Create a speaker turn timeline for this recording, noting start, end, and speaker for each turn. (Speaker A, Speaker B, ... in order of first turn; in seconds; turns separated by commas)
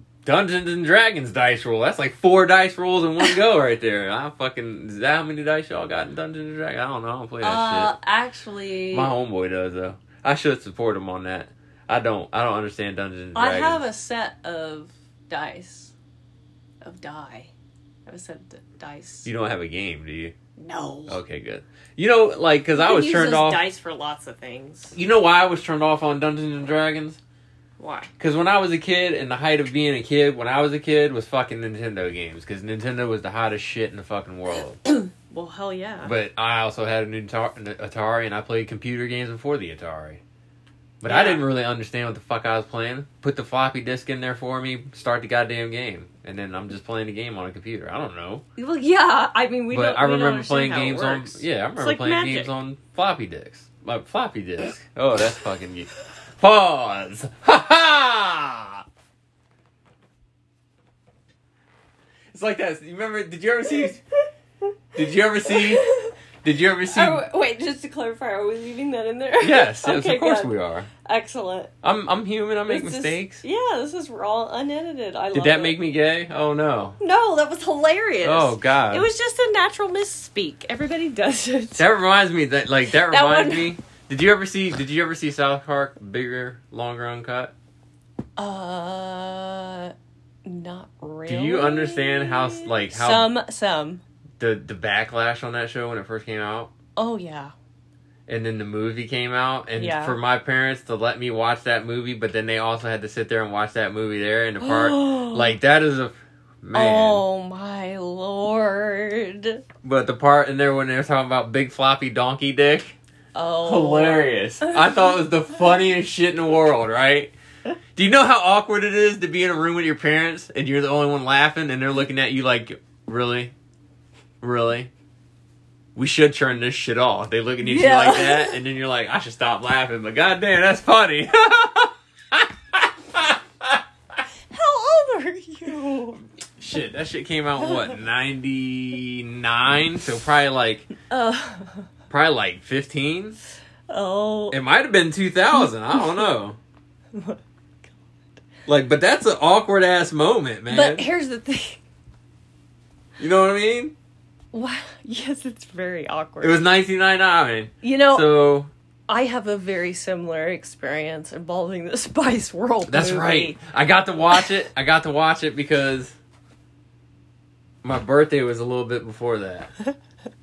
Speaker A: 0.2-7.9, Speaker B: 7.4-9.1, Speaker A: 8.9-13.8, Speaker B: 13.3-15.9, Speaker B: 16.8-17.5, Speaker B: 18.1-19.3, Speaker A: 19.2-20.3, Speaker B: 20.6-21.2, Speaker A: 21.1-23.6, Speaker B: 22.7-24.9, Speaker A: 24.9-27.2, Speaker B: 27.8-28.1, Speaker A: 28.2-34.8, Speaker B: 34.9-36.1, Speaker A: 36.0-40.2, Speaker A: 41.0-48.4, Speaker B: 41.0-41.4, Speaker B: 48.5-52.5, Speaker A: 49.7-58.8, Speaker A: 62.3-64.0, Speaker A: 64.9-65.8, Speaker B: 65.5-66.1, Speaker A: 66.4-67.2, Speaker B: 66.9-70.5, Speaker A: 69.4-70.9, Speaker B: 71.0-71.7, Speaker A: 71.8-73.4, Speaker B: 72.7-75.8, Speaker A: 75.3-77.0, Speaker B: 77.0-81.8, Speaker A: 78.2-79.1, Speaker A: 81.8-87.5, Speaker B: 83.1-83.7, Speaker B: 88.4-89.9, Speaker B: 90.4-94.0, Speaker A: 91.3-93.3, Speaker A: 94.4-96.7, Speaker B: 97.0-97.5, Speaker A: 98.3-107.2, Speaker B: 99.8-100.2, Speaker B: 104.6-105.5, Speaker B: 106.7-109.6, Speaker A: 109.8-113.0, Speaker B: 113.3-114.9, Speaker A: 113.6-117.3, Speaker A: 118.0-123.5, Speaker A: 124.4-124.9, Speaker A: 125.9-133.8, Speaker B: 127.6-128.6, Speaker B: 134.5-136.2, Speaker A: 136.6-140.9, Speaker B: 141.1-141.8, Speaker A: 142.1-143.4, Speaker B: 143.9-144.6, Speaker A: 144.5-146.6, Speaker B: 145.5-146.2, Speaker B: 147.1-147.4, Speaker A: 148.7-151.1, Speaker B: 150.7-151.8, Speaker A: 153.2-153.9, Speaker B: 154.5-156.6, Speaker A: 156.4-158.7, Speaker B: 157.8-158.3, Speaker B: 159.1-163.6, Speaker A: 162.9-166.2, Speaker A: 167.8-169.7